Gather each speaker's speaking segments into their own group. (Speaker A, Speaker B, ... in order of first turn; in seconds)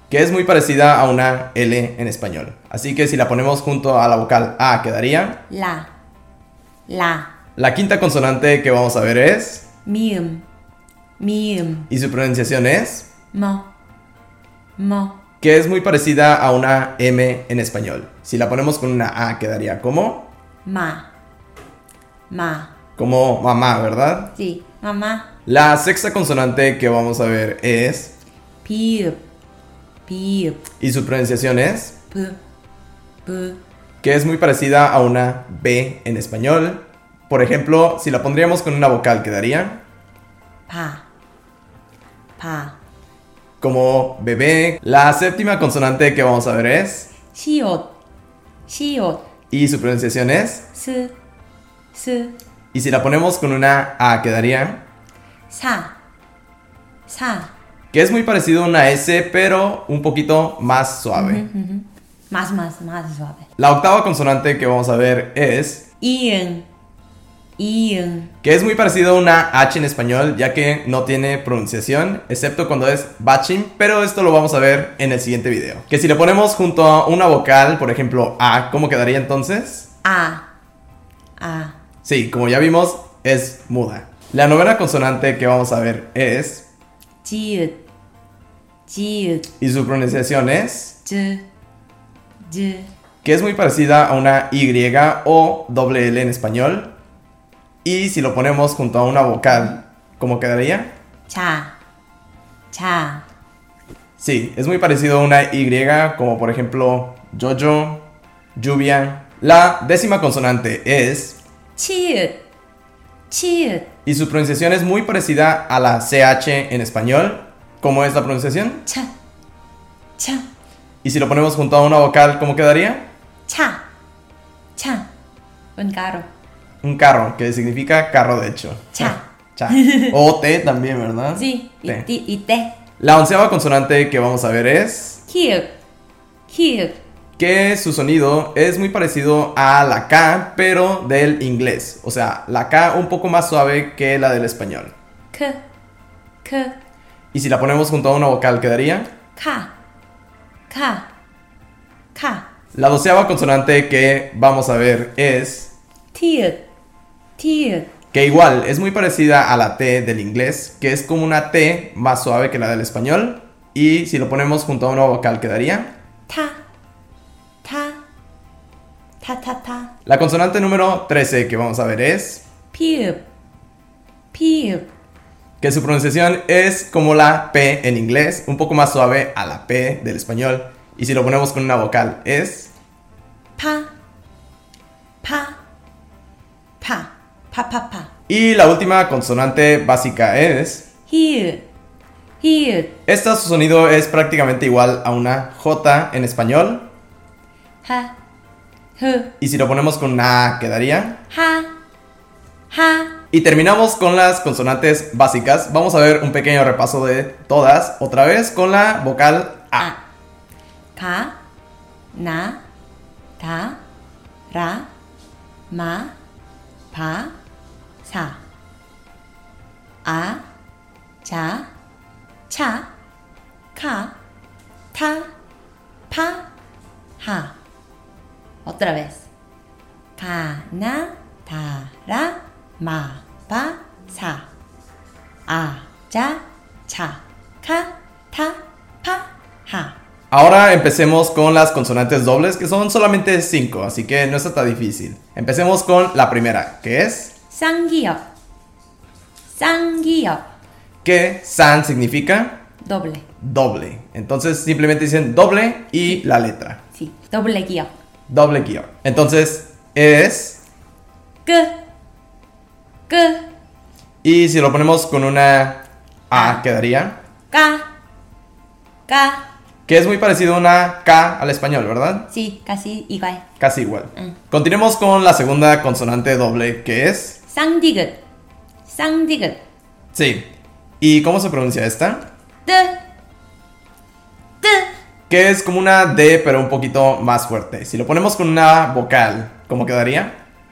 Speaker A: 0.1-5.4, 7.6-9.7, 11.9-13.1, 15.4-20.3, 23.0-24.3, 25.4-28.1, 30.8-31.9, 34.0-39.8, 43.6-47.1, 49.5-50.6, 52.7-54.8, 57.9-61.4, 63.6-65.8, 68.4-79.9, 82.0-86.7, 89.6-91.0, 93.2-96.9, 97.8-100.9, 104.2-108.0, 108.5-111.4, 114.0-118.8, 121.0-123.0, 126.8-132.1, 133.0-135.2, 137.4-144.9, 147.3-149.1, 152.7-155.7, 158.1-165.9, 170.1-172.4, 175.6-182.7, 188.3-190.8, 193.1-196.9, 199.4-201.2, 203.3-209.9, 240.3-247.3, 251.0-252.6, 253.4-256.8, 258.3-260.6, 264.2-267.2, 269.9-272.3, 273.6-277.4, 280.1-280.5, 281.0-282.2, 285.3-290.3
Speaker B: 5.5-5.9, 6.9-7.3, 9.8-10.4, 11.2-11.9, 13.3-13.7, 14.8-15.2, 20.6-21.1, 22.3-22.7, 24.3-25.3, 28.6-29.2, 30.1-30.6, 32.1-32.4, 33.2-33.6, 40.7-41.0, 42.4-42.8, 47.3-47.9, 48.7-49.2, 50.7-51.1, 51.9-52.4, 55.5-55.9, 57.1-57.5, 61.1-63.5, 66.0-66.7, 67.6-68.3, 80.0-80.5, 81.4-81.8, 87.2-87.8, 88.9-89.5, 91.0-91.4, 92.5-92.9, 99.5-99.8, 101.3-101.7, 102.7-103.2, 111.8-112.4, 113.3-113.9, 120.2-120.5, 123.5-123.8, 124.8-125.1, 125.8-126.3, 128.9-130.1, 131.3-132.7, 135.3-135.7, 136.5-137.0, 145.3-145.6, 146.4-146.8, 149.3-149.7, 150.7-151.1, 152.1-152.4, 156.1-156.6, 157.4-157.9, 166.3-166.6, 167.6-168.0, 169.2-169.9, 172.7-173.2, 174.3-174.9, 183.6-183.9, 185.2-185.6, 186.8-188.1, 191.1-191.6, 192.4-192.9, 197.8-198.1, 199.0-199.3, 201.3-201.7, 202.7-203.1, 210.9-211.3, 212.1-212.6, 213.4-213.8, 214.5-214.9, 215.7-216.1, 216.9-217.3, 218.0-218.4, 220.0-220.4, 221.2-221.7, 222.5-222.9, 223.7-224.1, 224.9-225.3, 226.1-226.5, 227.2-227.5, 228.6-229.3, 230.2-234.4, 235.5-239.9, 247.5-248.2, 249.5-250.4, 252.8-253.2, 256.9-257.9, 261.4-261.7, 263.1-263.4, 266.3-266.6, 267.5-267.9, 269.1-269.5, 272.3-273.4, 277.5-278.2, 278.9-279.6, 282.6-283.0, 284.6-284.9